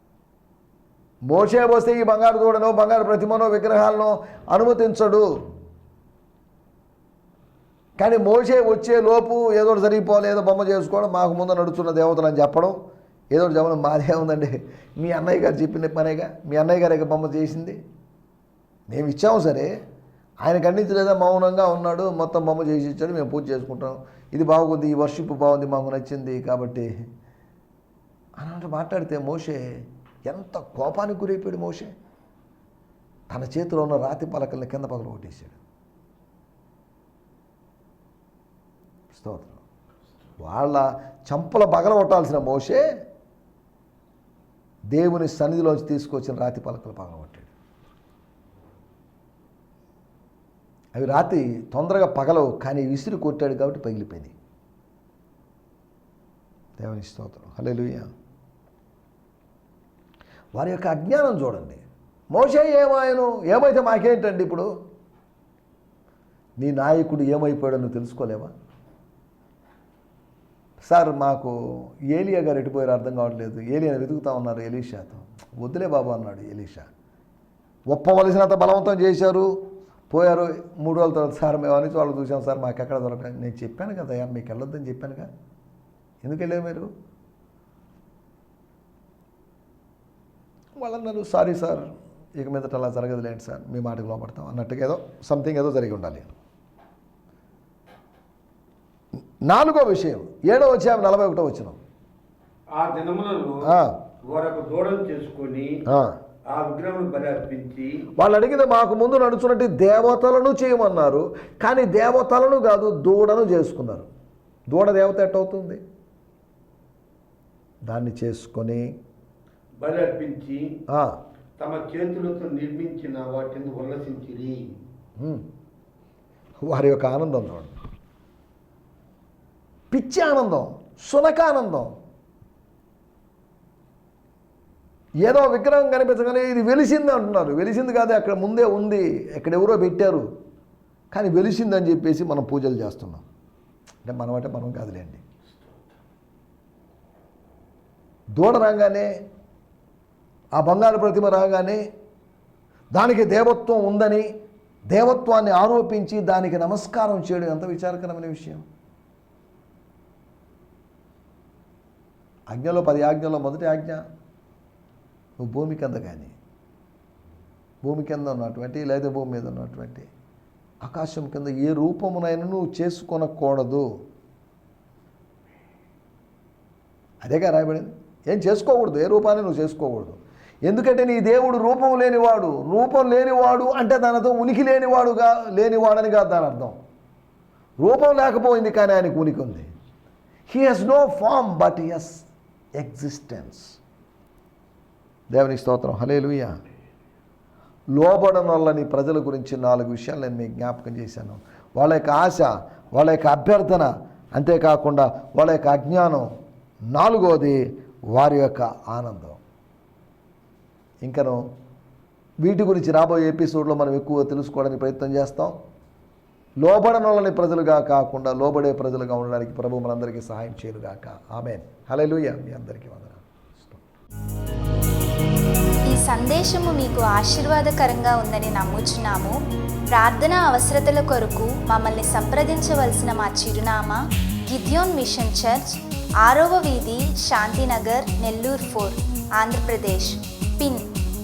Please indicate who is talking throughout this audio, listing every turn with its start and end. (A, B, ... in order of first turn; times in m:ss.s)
0:01.3-0:05.3 A
0:08.0-0:12.8 A
0:13.3-0:17.8 A
0:18.9-0:19.7 A
0:20.4-0:26.9 A
0:28.4-0:31.9 A
0:33.3-0:35.6 A
0:39.1-0:39.6 A
0:40.4-0:42.8 A
0:44.9-0:47.5 A
0:51.0-0:54.3 A
0:56.8-0:58.1 A
1:00.6-1:01.8 A
1:02.3-1:04.7 A
1:06.6-1:08.5 A
1:10.9-1:11.6 A
1:12.1-1:16.9 A
1:17.9-1:19.6 A
1:20.1-1:25.3 A
1:26.2-1:26.9 A
1:30.8-1:36.3 A
1:39.4-1:41.8 A
1:42.8-1:43.7 B
1:43.6-1:44.0 A
1:44.2-1:45.8 B
1:45.9-1:46.2 A
1:46.5-1:48.1 B
1:48.2-1:54.1 A
1:54.7-1:55.8 A
1:57.9-1:58.8 A
1:59.8-2:00.8 B
2:00.9-2:01.2 A
2:01.6-2:04.7 B
2:05.2-2:05.4 A
2:06.6-2:07.7 A
2:09.9-2:11.9 A
2:15.2-2:20.3 A
2:21.1-2:23.2 A
2:24.0-2:25.2 A
2:28.4-2:29.1 A
2:30.6-2:31.8 A
2:32.9-2:34.3 A
2:34.9-2:38.6 A
2:42.5-2:44.0 A
2:45.4-2:46.4 A
2:47.8-2:50.1 A
2:50.8-2:53.9 A
2:57.2-3:06.8 A
3:07.8-3:09.7 A
3:10.5-3:13.8 A
3:15.3-3:16.6 A
3:17.9-3:26.3 A
3:26.9-3:29.4 A
3:31.0-3:31.5 A
3:32.4-3:35.6 A
3:36.6-3:43.8 A
3:45.9-3:49.4 C
3:49.9-4:00.9 C